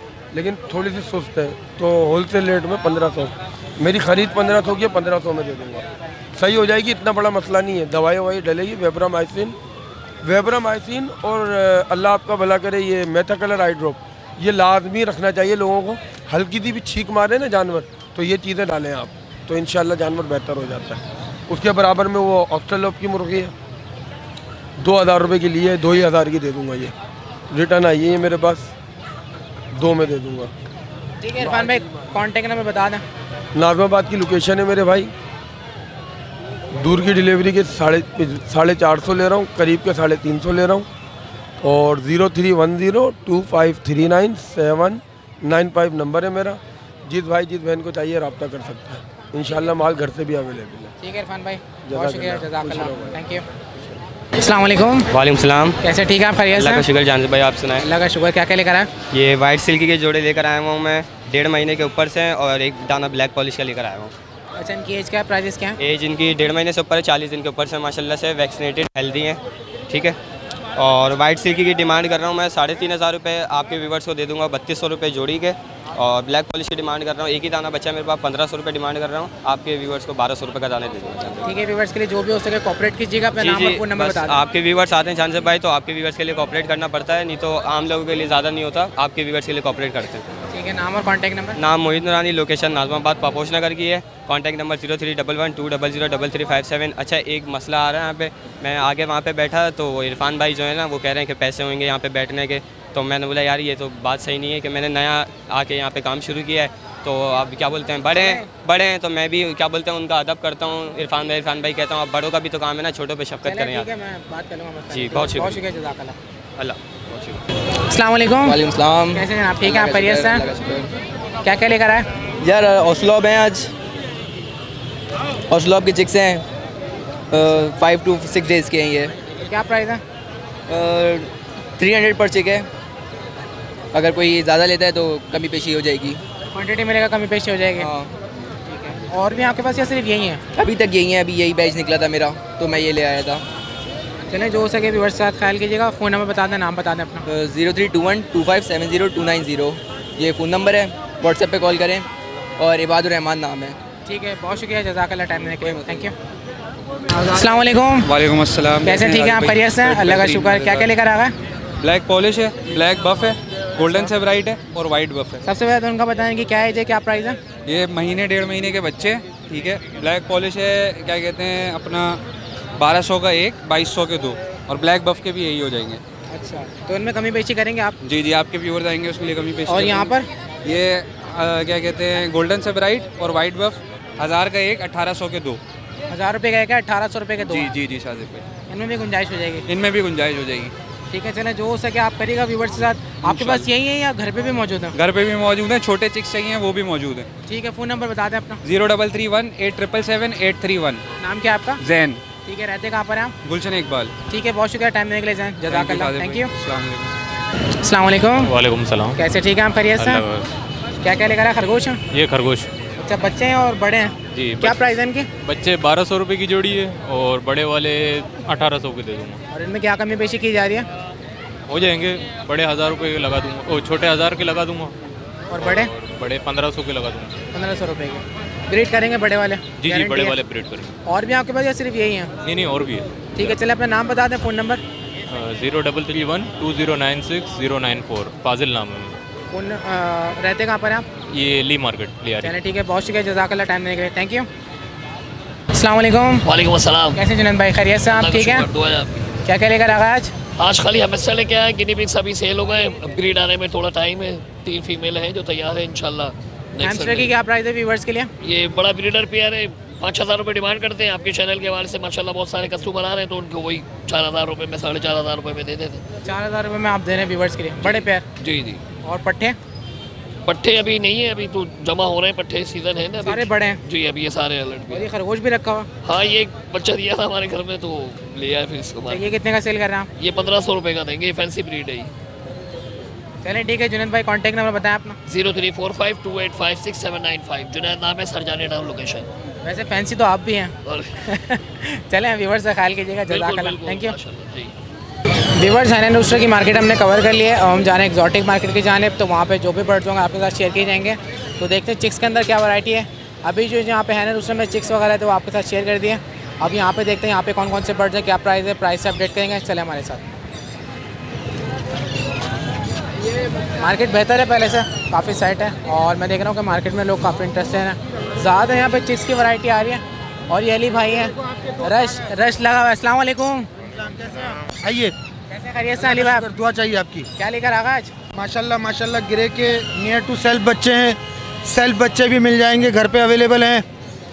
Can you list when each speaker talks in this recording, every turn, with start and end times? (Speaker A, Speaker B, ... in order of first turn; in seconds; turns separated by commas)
Speaker A: 0.3-5.8, Speaker A: 6.3-9.6, Speaker A: 10.2-23.5, Speaker A: 24.8-26.9, Speaker A: 27.5-28.7, Speaker A: 29.7-30.5, Speaker B: 31.2-33.0, Speaker A: 31.4-31.7, Speaker A: 33.5-35.1, Speaker A: 36.7-40.9, Speaker A: 41.6-50.9, Speaker B: 51.0-53.4, Speaker A: 51.9-53.2, Speaker B: 54.4-55.1, Speaker C: 55.1-55.8, Speaker B: 55.8-56.9, Speaker C: 56.5-57.8, Speaker B: 57.8-58.9, Speaker C: 59.1-64.1, Speaker B: 64.6-65.8, Speaker C: 65.8-70.2, Speaker C: 70.8-81.5, Speaker B: 81.4-84.4, Speaker C: 83.4-90.3, Speaker B: 90.5-91.6, Speaker C: 91.6-113.9, Speaker B: 108.0-108.5, Speaker B: 113.4-116.2, Speaker C: 114.9-115.6, Speaker C: 116.6-117.2, Speaker B: 117.9-118.6, Speaker D: 118.4-120.9, Speaker B: 119.1-120.4, Speaker B: 121.4-122.1, Speaker D: 122.4-123.7, Speaker D: 125.5-126.4, Speaker D: 127.3-129.1, Speaker B: 129.4-130.0, Speaker D: 130.7-132.7, Speaker D: 133.9-136.2, Speaker B: 136.5-137.9, Speaker D: 137.8-138.1, Speaker B: 138.7-140.4, Speaker D: 140.5-143.4, Speaker B: 144.2-147.2, Speaker D: 147.2-152.1, Speaker D: 152.6-153.8, Speaker B: 154.1-156.1, Speaker B: 157.3-158.1, Speaker E: 157.3-160.9, Speaker B: 158.8-161.3, Speaker E: 161.8-165.4, Speaker B: 165.4-167.4, Speaker E: 167.7-172.2, Speaker E: 172.8-176.0, Speaker B: 176.3-177.9, Speaker E: 178.0-185.6, Speaker B: 179.7-180.3, Speaker B: 186.1-187.7, Speaker E: 187.5-188.4, Speaker B: 188.7-189.6, Speaker E: 189.7-190.7, Speaker B: 191.1-194.9, Speaker E: 193.2-193.7, Speaker E: 194.9-197.3, Speaker B: 197.5-198.6, Speaker E: 198.6-201.0, Speaker B: 201.2-201.8, Speaker E: 201.8-202.2, Speaker B: 202.4-203.3, Speaker E: 203.4-204.1, Speaker B: 204.3-206.5, Speaker E: 205.7-207.1, Speaker B: 207.8-208.5, Speaker F: 208.4-209.2, Speaker B: 209.2-210.2, Speaker F: 210.0-210.4, Speaker B: 211.0-212.0, Speaker F: 212.1-212.7, Speaker B: 213.0-215.3, Speaker F: 214.3-214.7, Speaker F: 215.4-219.4, Speaker B: 219.5-220.8, Speaker F: 221.7-224.9, Speaker B: 225.5-225.9, Speaker F: 225.6-227.4, Speaker B: 227.5-230.3, Speaker F: 229.8-230.9, Speaker B: 231.1-232.3, Speaker F: 232.4-233.6, Speaker B: 233.3-234.8, Speaker F: 235.3-239.2, Speaker B: 239.5-241.0, Speaker F: 241.3-242.6, Speaker B: 242.4-244.5, Speaker B: 245.7-246.4, Speaker G: 246.4-247.2, Speaker B: 247.1-248.7, Speaker G: 248.1-249.3, Speaker B: 249.4-250.3, Speaker G: 250.6-257.3, Speaker B: 256.8-258.3, Speaker G: 258.4-266.0, Speaker B: 266.2-268.2, Speaker G: 267.8-268.8, Speaker B: 269.0-269.6, Speaker G: 270.4-275.0, Speaker B: 273.2-273.8, Speaker B: 274.9-275.9, Speaker G: 276.0-279.2, Speaker B: 279.1-280.1, Speaker G: 280.2-282.1, Speaker B: 283.4-285.2, Speaker G: 285.3-289.2, Speaker B: 289.6-290.7, Speaker G: 290.9-291.1, Speaker B: 291.2-294.1, Speaker G: 293.3-294.7, Speaker B: 295.6-310.2, Speaker B: 313.8-323.7, Speaker H: 321.4-322.1, Speaker H: 323.9-325.1, Speaker B: 325.5-326.5, Speaker H: 325.9-327.3, Speaker B: 327.4-328.1, Speaker H: 328.3-333.8